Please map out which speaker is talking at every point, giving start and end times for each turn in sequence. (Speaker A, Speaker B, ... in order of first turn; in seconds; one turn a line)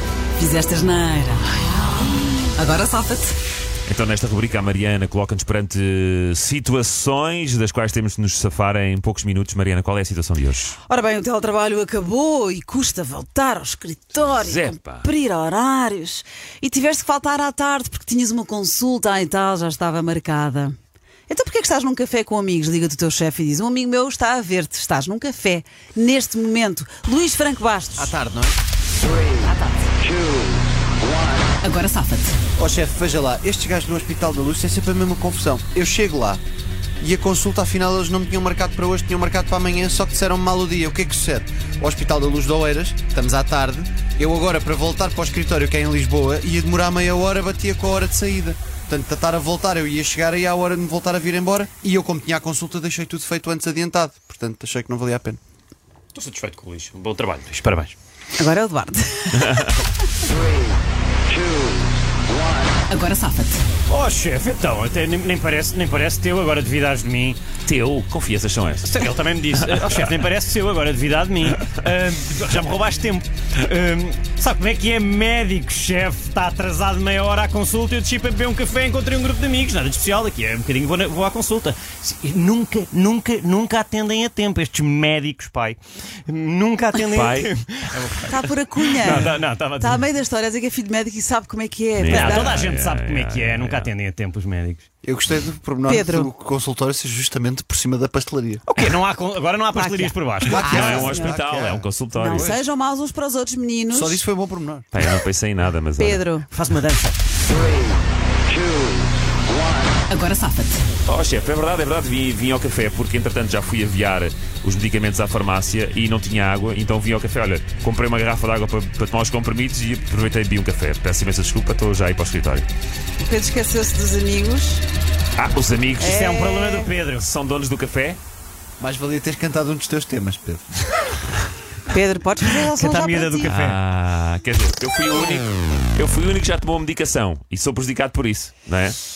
Speaker A: 0.4-3.4
Speaker B: 3.9-10.8
Speaker A: 10.8-20.8
Speaker B: 14.3-15.1
Speaker A: 21.3-28.1
Speaker C: 28.0-28.6
Speaker A: 29.4-29.9
Speaker A: 31.6-32.4
Speaker C: 32.6-36.4
Speaker C: 37.0-55.4
Speaker D: 56.1-58.0
Speaker A: 58.4-59.8
Speaker B: 59.4-59.7
Speaker A: 62.9-63.6
Speaker D: 63.9-67.4
Speaker B: 67.7-68.9
Speaker D: 68.8-90.0
Speaker B: 87.1-87.5
Speaker A: 88.2-92.6
Speaker B: 92.0-93.9
Speaker D: 92.1-94.8
Speaker C: 95.0-98.7
Speaker A: 95.9-96.3
Speaker D: 98.7-101.2
Speaker A: 99.7-101.4
Speaker C: 100.5-102.6
Speaker B: 100.9-102.5
Speaker A: 102.1-104.2
Speaker C: 103.9-104.9
Speaker B: 104.9-106.2
Speaker A: 106.0-106.5
Speaker D: 106.5-107.2
Speaker A: 110.1-110.8
Speaker B: 111.1-122.7
Speaker A: 123.2-124.8
Speaker B: 125.4-126.2
Speaker A: 126.0-126.9
Speaker D: 126.0-127.3
Speaker B: 127.2-128.2
Speaker C: 128.8-131.1
Speaker A: 131.9-133.6
Speaker D: 132.7-133.8
Speaker B: 133.5-139.0